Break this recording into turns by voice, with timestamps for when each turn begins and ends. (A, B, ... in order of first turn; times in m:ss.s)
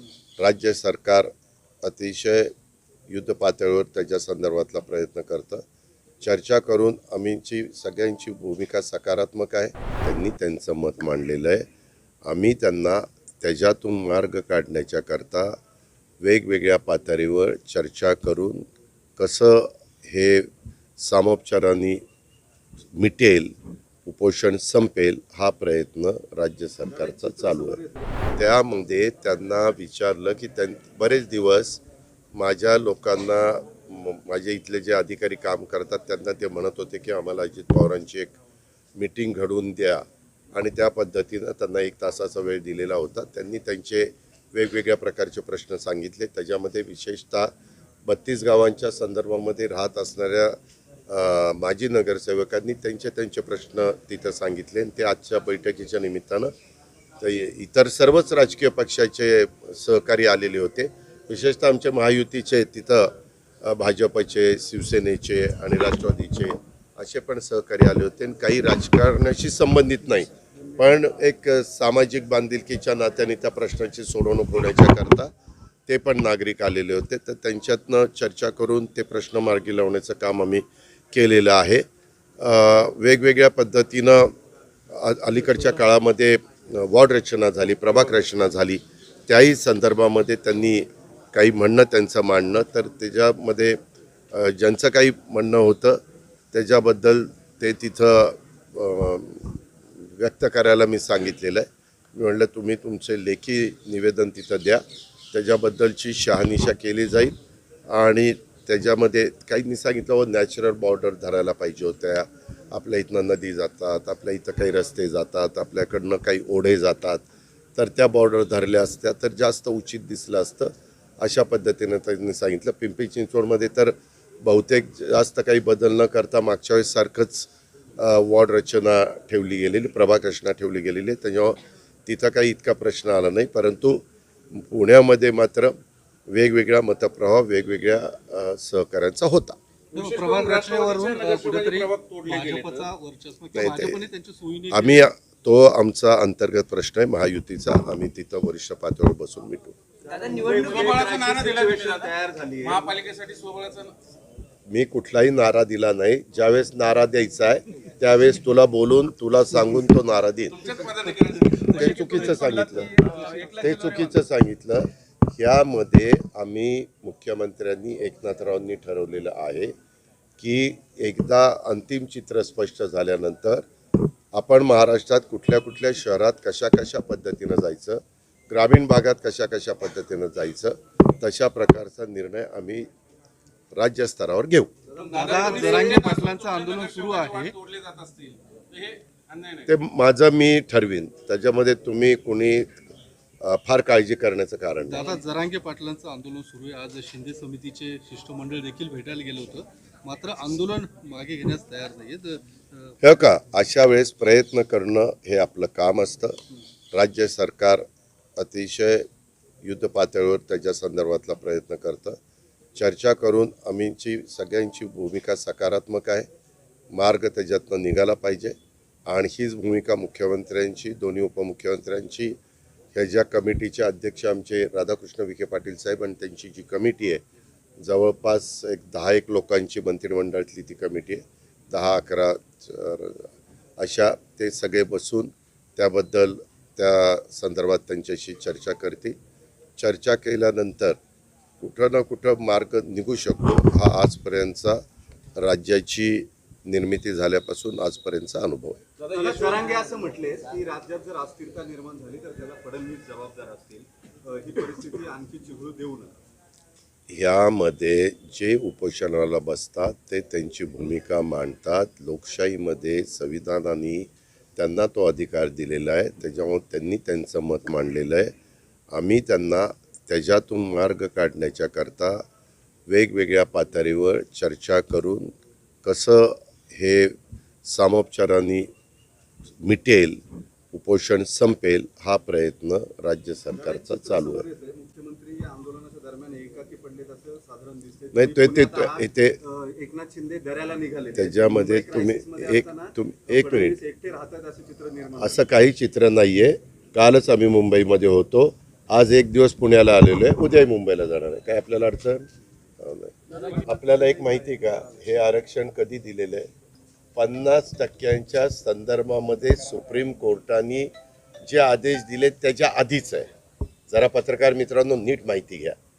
0:00.4-0:01.3 A
0:01.8-0:02.5 A
0:03.1-0:05.6 A
0:06.2-0:11.7 A
0:12.3-0:15.6 A
0:16.2-0:22.0 A
0:23.0-0:23.5 A
0:24.0-0:27.8 A
0:26.9-0:28.2 B
0:28.4-0:31.8 A
0:32.4-0:38.4 A
0:39.0-0:47.5 A
0:48.1-0:50.6 A
0:51.1-0:56.5 A
0:57.2-1:15.3 A
1:15.9-1:21.8 A
1:22.4-1:24.3 A
1:24.9-1:33.8 A
1:34.3-1:36.0 A
1:36.5-1:47.4 A
1:47.9-1:57.2 A
1:57.8-2:15.8 A
2:16.3-2:19.6 A
2:19.9-2:22.9 C
2:19.9-2:25.0 D
2:23.5-2:24.0 A
2:24.7-2:29.8 A
2:30.1-2:32.9 B
2:30.6-2:33.9 C
2:34.7-2:40.6 A
2:40.6-2:44.2 C
2:41.5-2:41.9 D
2:41.7-2:42.9 A
2:43.6-2:49.7 A
2:50.4-2:53.6 A
2:54.3-3:02.9 A
3:03.7-3:04.7 A
3:05.0-3:05.8 B
3:05.0-3:09.7 C
3:05.1-3:07.6 D
3:09.7-3:12.7 A
3:13.4-3:15.1 A
3:14.9-3:22.4 D
3:23.0-3:26.4 A
3:26.9-3:27.9 A
3:28.4-3:29.1 A
3:29.6-3:32.2 A
3:32.8-3:36.3 A
3:36.9-3:38.6 A
3:39.1-3:42.4 A
3:43.0-3:47.2 A
3:47.8-3:53.3 A
3:53.8-3:59.2 A
3:59.8-4:01.0 A
4:01.6-4:04.8 A
4:05.4-4:08.8 A
4:09.0-4:16.2 B
4:09.1-4:09.7 C
4:17.1-4:28.3 A
4:28.9-4:32.2 A
4:32.9-4:35.3 A
4:35.8-4:38.7 A
4:39.6-4:40.2 A
4:40.7-4:44.5 A
4:43.5-4:55.4 B
4:48.1-4:49.4 A
4:51.2-4:53.8 A
4:55.2-5:02.3 A
5:02.8-5:06.5 A
5:07.2-5:10.9 A
5:11.5-5:13.3 A
5:13.9-5:15.8 A